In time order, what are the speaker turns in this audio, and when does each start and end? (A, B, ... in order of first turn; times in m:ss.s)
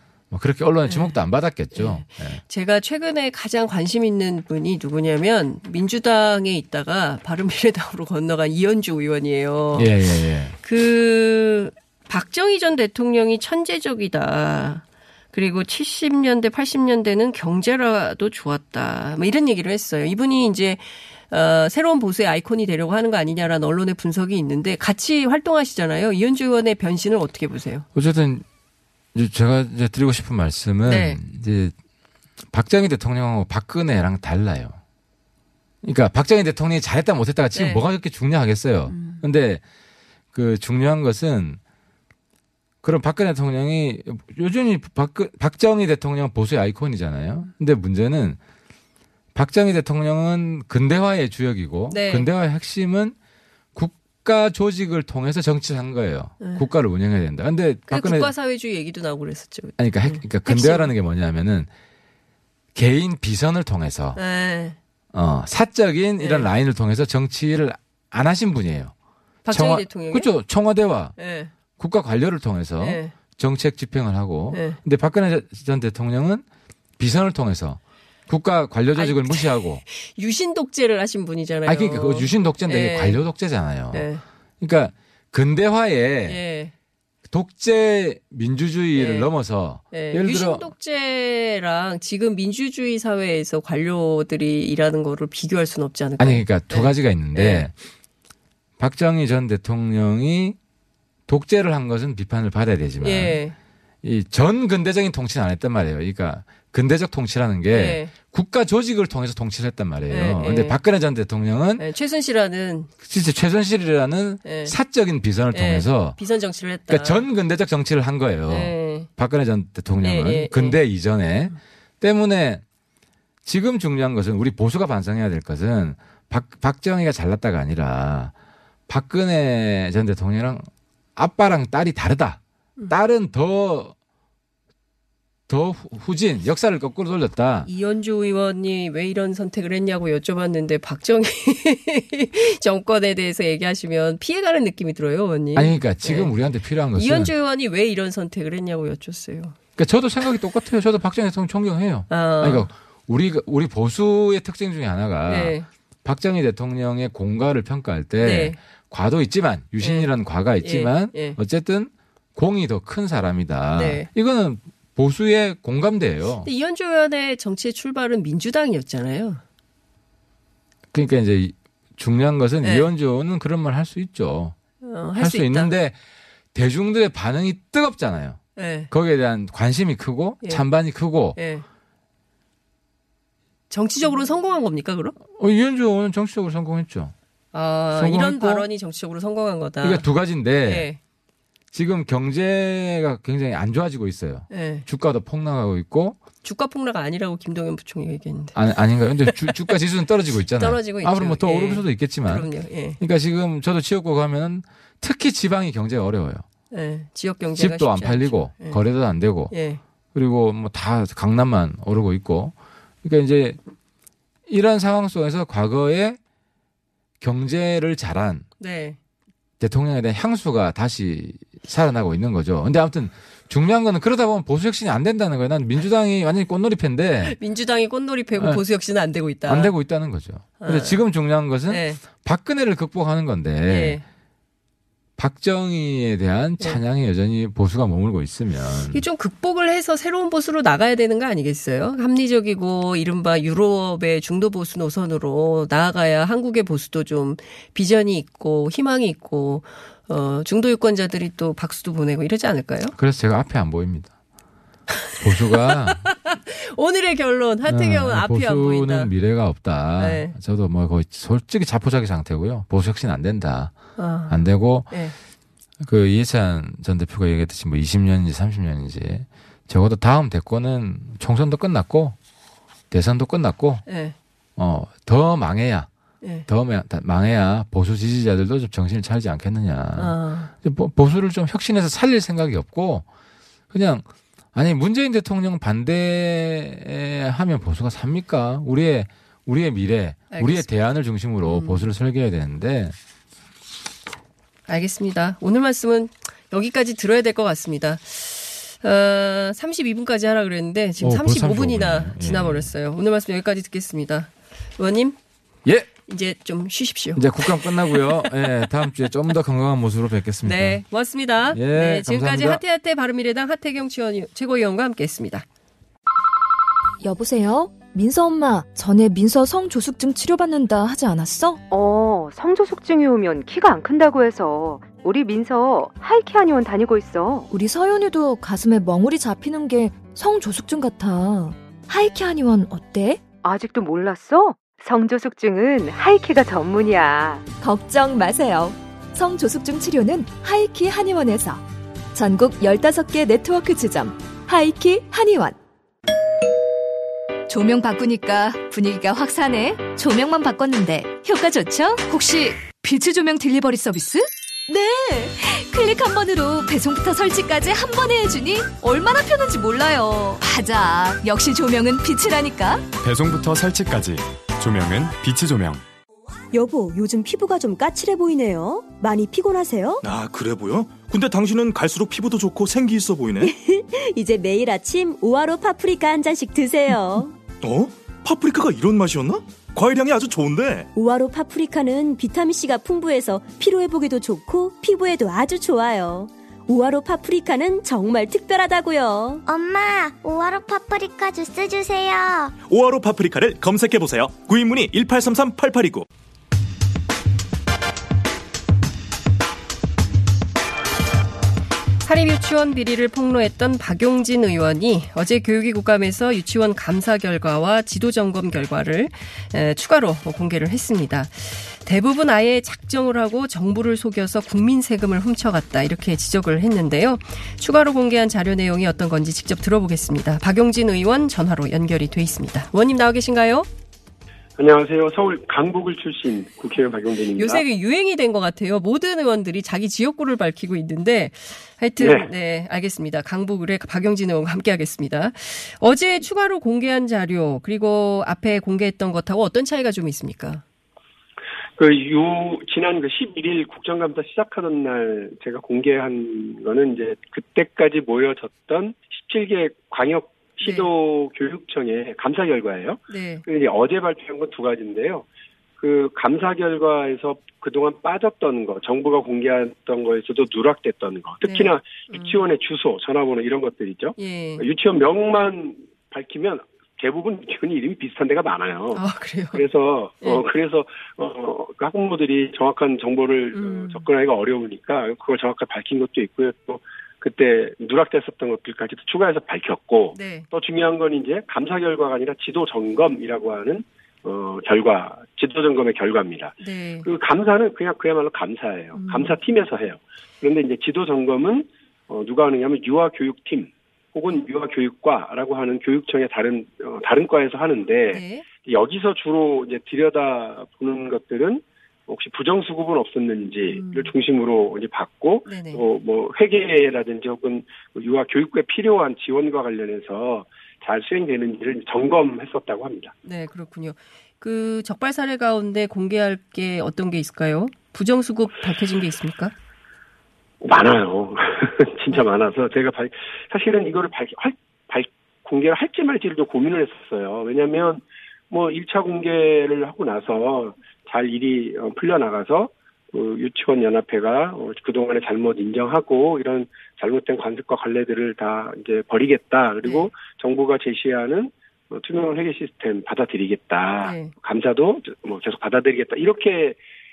0:00.3-0:02.4 A
0:00.9-0:01.2 B
0:01.7-0:09.9 B
0:09.7-0:10.6 A
0:10.6-0:27.8 B
0:27.9-0:28.4 A
0:29.1-0:31.7 A
0:30.8-0:31.2 B
0:32.5-0:34.8 A
0:35.8-0:39.6 A
0:37.5-0:37.8 B
0:38.9-0:39.2 B
0:40.3-0:41.6 A
0:42.8-0:48.4 A
0:49.3-0:53.2 A
0:51.9-0:52.3 B
0:53.7-0:58.3 A
0:56.4-0:56.7 B
0:57.9-1:00.9 B
0:59.8-1:01.7 A
1:02.7-1:04.2 A
1:04.1-1:04.8 B
1:05.1-1:08.9 A
1:06.2-1:06.5 B
1:09.4-1:10.3 B
1:09.5-1:11.2 A
1:11.2-1:11.5 B
1:11.8-1:16.4 A
1:12.8-1:13.1 B
1:14.5-1:14.8 B
1:17.0-1:19.8 A
1:19.0-1:23.2 B
1:21.6-1:24.1 A
1:23.9-1:24.2 B
1:24.6-1:26.4 A
1:26.2-1:26.7 B
1:27.3-1:30.7 A
1:28.9-1:29.3 B
1:29.9-1:37.7 B
1:36.2-1:37.7 A
1:38.8-1:40.6 A
1:41.3-1:43.4 A
1:43.0-1:43.5 B
1:44.0-1:51.8 A
1:47.7-1:48.1 B
1:50.1-1:50.8 B
1:51.8-1:52.9 B
1:53.0-1:56.2 A
1:54.4-1:54.7 B
1:55.5-1:57.3 B
1:56.9-2:02.6 A
1:58.5-1:59.1 B
2:00.0-2:00.8 B
2:03.4-2:08.3 A
2:08.9-2:13.9 A
2:15.5-2:17.7 A
2:17.6-2:26.3 B
2:25.5-2:27.3 A
2:26.9-2:29.5 B
2:29.8-2:46.5 A
2:32.1-2:32.7 B
2:35.2-2:35.7 B
2:38.2-2:38.6 B
2:39.8-2:41.4 B
2:43.7-2:44.1 B
2:46.4-2:49.4 B
2:50.9-2:54.6 A
2:52.6-2:52.9 B
2:54.8-2:55.7 B
2:55.1-2:56.0 A
2:56.5-3:01.4 A
2:58.6-2:58.9 B
3:01.3-3:01.6 B
3:03.7-3:05.2 B
3:05.3-3:07.1 A
3:07.5-3:10.0 B
3:07.9-3:08.7 A
3:09.8-3:10.9 A
3:10.6-3:11.0 B
3:11.7-3:16.2 A
3:14.5-3:14.9 B
3:16.4-3:18.6 B
3:18.5-3:26.4 A
3:19.2-3:19.8 B
3:20.6-3:23.0 B
3:26.7-3:28.8 B
3:27.6-3:29.5 A
3:29.5-3:29.8 B
3:30.1-3:33.6 A
3:34.5-3:36.2 A
3:37.2-3:38.4 A
3:38.6-3:39.0 B
3:39.6-3:47.4 A
3:47.2-3:49.7 B
3:48.4-3:48.6 A
3:49.4-3:54.0 A
3:50.6-3:51.0 B
3:51.7-3:52.0 B
3:53.7-3:54.0 B
3:55.2-3:59.0 A
3:58.9-4:12.9 B
4:13.0-4:14.1 A
4:15.1-4:19.1 B
4:15.2-4:16.1 A
4:17.6-4:25.0 A
4:20.0-4:20.3 B
4:24.0-4:25.2 B
4:25.8-4:32.2 A
4:32.9-4:33.8 A
4:33.8-4:34.1 B
4:34.6-4:35.9 A
4:36.2-4:36.5 B
4:36.4-4:43.0 A
4:40.0-4:40.5 B
4:43.7-4:53.0 A
4:50.3-4:50.7 B
4:51.4-4:51.9 B
4:54.7-5:05.2 B
5:01.0-5:02.7 A
5:06.1-5:08.3 B
5:07.2-5:10.8 A
5:10.4-5:15.4 B
5:11.5-5:12.6 A
5:17.0-5:21.6 C
5:21.7-5:27.5 D
5:27.5-5:33.3 C
5:33.3-5:37.5 D
5:37.5-5:45.6 C
5:47.5-6:02.8 C
6:03.0-6:05.8 E
6:06.5-6:10.0 F
6:10.0-6:13.5 G
6:13.4-6:17.3 F
6:17.6-6:20.9 G
6:20.9-6:29.4 F
6:29.4-6:32.5 H
6:32.6-6:36.1 G
6:42.0-7:03.7 B
7:04.6-7:07.6 I
7:07.4-7:20.6 B
7:12.0-7:12.3 I
7:21.8-7:35.2 I
7:30.6-7:30.9 B
7:33.1-7:33.4 B
7:35.8-8:33.1 I
7:41.4-7:42.4 B
7:44.2-7:44.6 B
7:48.9-7:49.6 B
7:53.5-7:54.0 B
8:00.1-8:00.5 B
8:06.6-8:07.1 B
8:08.9-8:09.4 B
8:18.1-8:18.4 B
8:23.7-8:24.1 B
8:25.4-8:25.8 B
8:33.2-8:39.5 B
8:40.6-9:06.8 I
8:59.8-9:00.1 B
9:04.0-9:04.3 B